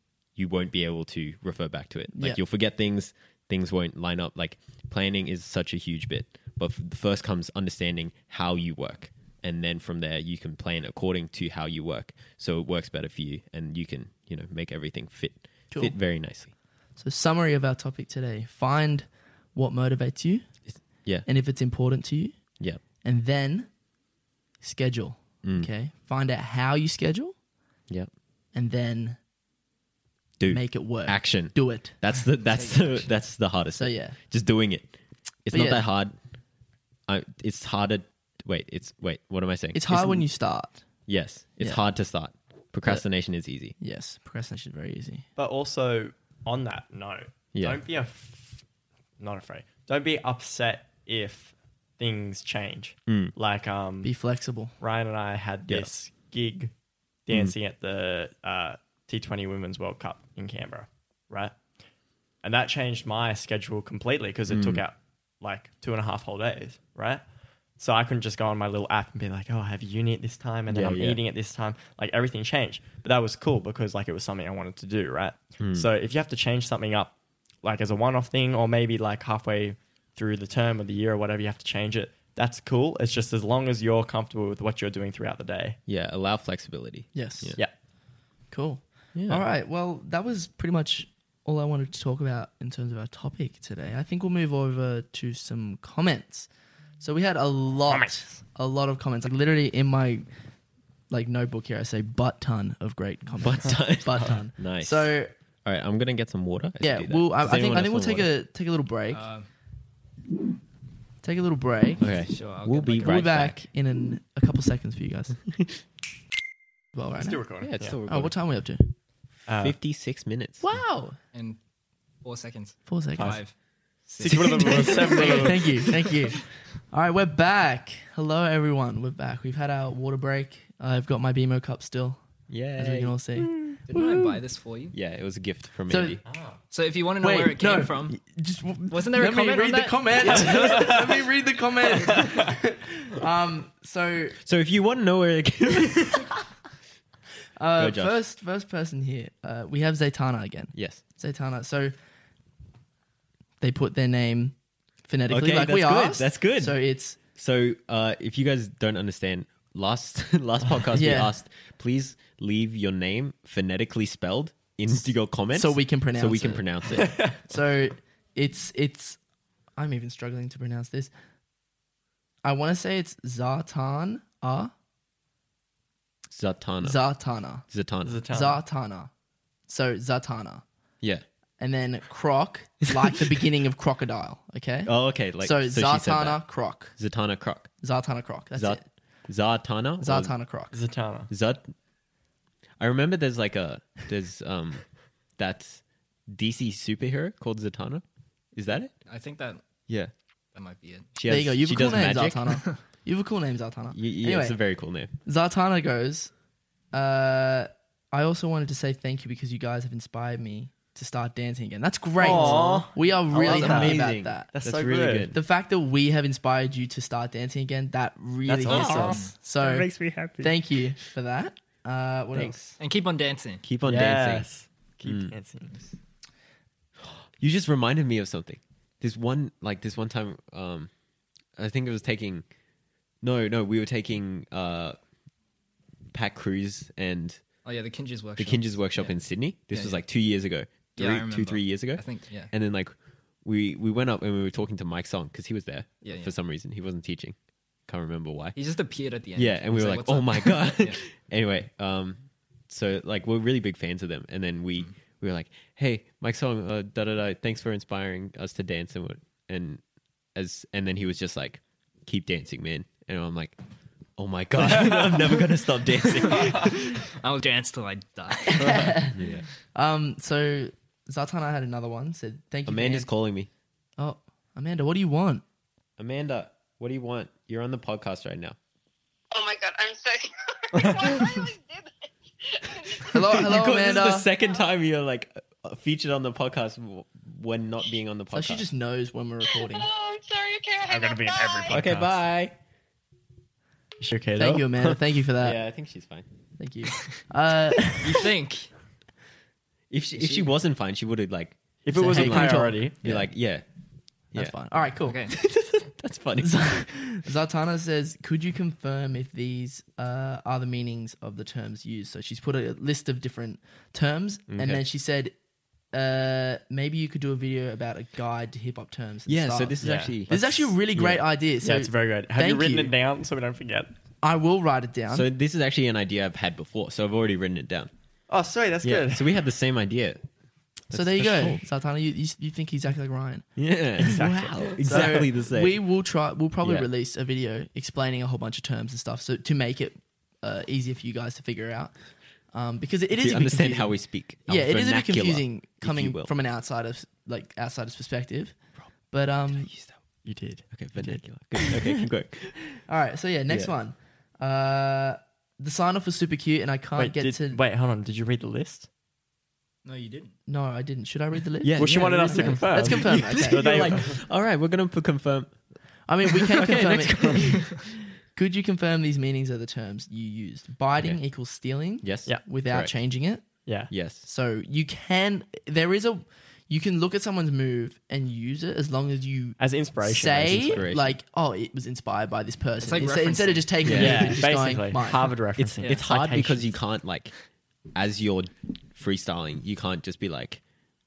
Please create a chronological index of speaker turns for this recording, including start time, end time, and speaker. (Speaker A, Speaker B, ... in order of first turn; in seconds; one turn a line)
Speaker A: 0.3-16.5
Speaker B: 2.1-2.4
Speaker B: 15.7-16.0
Speaker B: 16.9-20.4
Speaker A: 20.7-21.3
Speaker B: 21.2-23.7
Speaker B: 24.6-27.3
Speaker A: 25.4-25.7
Speaker B: 28.5-29.2
Speaker A: 30.4-36.1
Speaker B: 30.5-32.0
Speaker C: 32.5-33.0
Speaker B: 33.7-34.2
Speaker B: 35.5-35.8
Speaker A: 37.1-40.2
Speaker B: 39.7-40.8
Speaker A: 41.1-43.7
Speaker B: 43.8-45.3
Speaker D: 45.4-48.6
Speaker A: 47.5-47.8
Speaker D: 49.2-54.1
Speaker A: 53.1-53.3
Speaker B: 54.0-54.8
Speaker D: 54.8-56.7
Speaker A: 55.7-55.9
Speaker D: 57.3-61.6
Speaker A: 57.3-57.5
Speaker D: 62.4-67.2
Speaker A: 64.5-64.8
Speaker D: 67.8-85.8
Speaker A: 70.7-71.2
Speaker A: 75.6-75.9
Speaker A: 85.9-87.6
Speaker B: 87.1-87.6
Speaker B: 88.5-100.3
Speaker A: 89.1-89.4
Speaker D: 97.9-98.3
Speaker B: 101.1-105.3
Speaker A: 103.4-108.3
Speaker B: 106.8-109.2
Speaker C: 109.1-109.5
Speaker B: 111.2-112.0
Speaker C: 112.0-113.4
Speaker A: 112.0-113.6
Speaker B: 113.0-115.6
Speaker B: 116.9-118.8
Speaker D: 117.2-118.0
Speaker A: 117.6-118.4
Speaker D: 119.5-119.8
Speaker A: 119.5-120.8
Speaker B: 120.6-121.2
Speaker C: 121.3-121.6
Speaker C: 122.2-126.1
Speaker B: 122.9-123.4
Speaker D: 123.2-123.4
Speaker D: 124.2-125.8
Speaker B: 124.2-132.2
Speaker A: 132.5-133.2
Speaker B: 132.8-134.4
Speaker C: 133.9-134.9
Speaker A: 134.9-136.2
Speaker B: 135.9-136.2
Speaker D: 136.3-136.6
Speaker C: 136.7-138.2
Speaker B: 137.2-144.4
Speaker C: 138.9-140.9
Speaker D: 140.6-141.1
Speaker D: 142.1-142.5
Speaker A: 144.4-146.3
Speaker B: 147.6-151.9
Speaker A: 147.8-148.2
Speaker A: 150.7-151.0
Speaker B: 153.6-157.2
Speaker A: 155.3-167.2
Speaker B: 160.9-161.4
Speaker B: 165.5-169.2
Speaker B: 169.8-171.1
Speaker B: 172.4-174.7
Speaker A: 176.3-177.0
Speaker B: 176.8-177.7
Speaker A: 177.7-178.2
Speaker D: 178.0-178.6
Speaker B: 178.3-179.1
Speaker B: 179.7-180.6
Speaker B: 181.6-186.9
Speaker A: 184.9-187.7
Speaker B: 187.8-188.8
Speaker A: 188.6-190.3
Speaker B: 190.0-190.8
Speaker D: 190.7-191.3
Speaker A: 191.3-191.7
Speaker A: 192.8-198.9
Speaker C: 199.1-199.6
Speaker C: 200.5-201.1
Speaker A: 201.1-202.6
Speaker B: 201.3-204.6
Speaker A: 203.9-205.1
Speaker B: 205.2-206.3
Speaker B: 206.9-214.5
Speaker D: 212.2-215.3
Speaker A: 212.2-215.4
Speaker B: 215.3-222.8
Speaker D: 218.5-219.2
Speaker A: 218.6-220.5
Speaker C: 218.7-219.3
Speaker A: 222.3-222.7
Speaker C: 222.8-223.6
Speaker A: 223.6-224.5
Speaker D: 223.8-225.9
Speaker A: 225.0-225.3
Speaker A: 227.0-230.9
Speaker A: 231.6-232.4
Speaker A: 233.2-235.0
Speaker A: 236.1-237.4
Speaker C: 237.6-240.0
Speaker A: 238.4-248.6
Speaker C: 240.9-242.5
Speaker C: 246.0-246.3
Speaker C: 248.6-251.0
Speaker A: 249.3-259.8
Speaker A: 260.3-263.6
Speaker A: 264.1-267.0
Speaker C: 266.3-269.0
Speaker B: 268.5-269.2
Speaker A: 269.1-269.4
Speaker B: 269.7-273.1
Speaker A: 272.6-273.5
Speaker B: 274.0-275.4
Speaker A: 276.0-278.6
Speaker E: 279.3-283.5
Speaker D: 280.8-281.3
Speaker B: 283.1-284.3
Speaker A: 283.1-288.6
Speaker B: 288.3-289.9
Speaker E: 289.4-291.9
Speaker D: 290.9-292.2
Speaker A: 291.7-292.6
Speaker D: 294.0-295.0
Speaker B: 294.4-295.6
Speaker A: 295.4-296.3
Speaker B: 296.6-298.3
Speaker C: 298.0-298.7
Speaker A: 299.9-303.6
Speaker D: 301.8-303.0
Speaker B: 301.9-303.3
Speaker B: 304.3-305.3
Speaker C: 305.1-305.3
Speaker A: 305.4-306.8
Speaker B: 306.4-315.3
Speaker A: 314.5-314.8
Speaker B: 315.9-322.9
Speaker A: 319.3-321.2
Speaker D: 319.8-320.4
Speaker D: 321.6-323.9
Speaker B: 324.2-325.3
Speaker A: 325.1-327.9
Speaker D: 328.3-329.3
Speaker A: 328.8-330.2
Speaker A: 330.9-331.6
Speaker B: 330.9-333.5
Speaker A: 333.6-335.8
Speaker B: 334.0-341.9
Speaker D: 334.0-335.3
Speaker A: 336.6-336.9
Speaker B: 342.5-348.6
Speaker A: 343.1-346.3
Speaker B: 349.1-349.7
Speaker A: 349.6-349.9
Speaker D: 350.2-351.2
Speaker A: 350.7-352.8
Speaker B: 352.9-357.6
Speaker A: 353.5-353.7
Speaker D: 356.9-358.9
Speaker C: 359.8-360.3
Speaker B: 360.5-364.0
Speaker A: 361.6-365.6
Speaker D: 361.8-364.2
Speaker B: 366.1-385.4
Speaker A: 366.3-367.8
Speaker A: 372.0-372.9
Speaker D: 373.6-373.9
Speaker A: 373.9-374.2
Speaker D: 379.6-380.8
Speaker A: 380.4-381.1
Speaker C: 382.8-384.1
Speaker A: 383.8-384.3
Speaker D: 383.9-386.7
Speaker A: 385.6-387.3
Speaker A: 387.9-390.6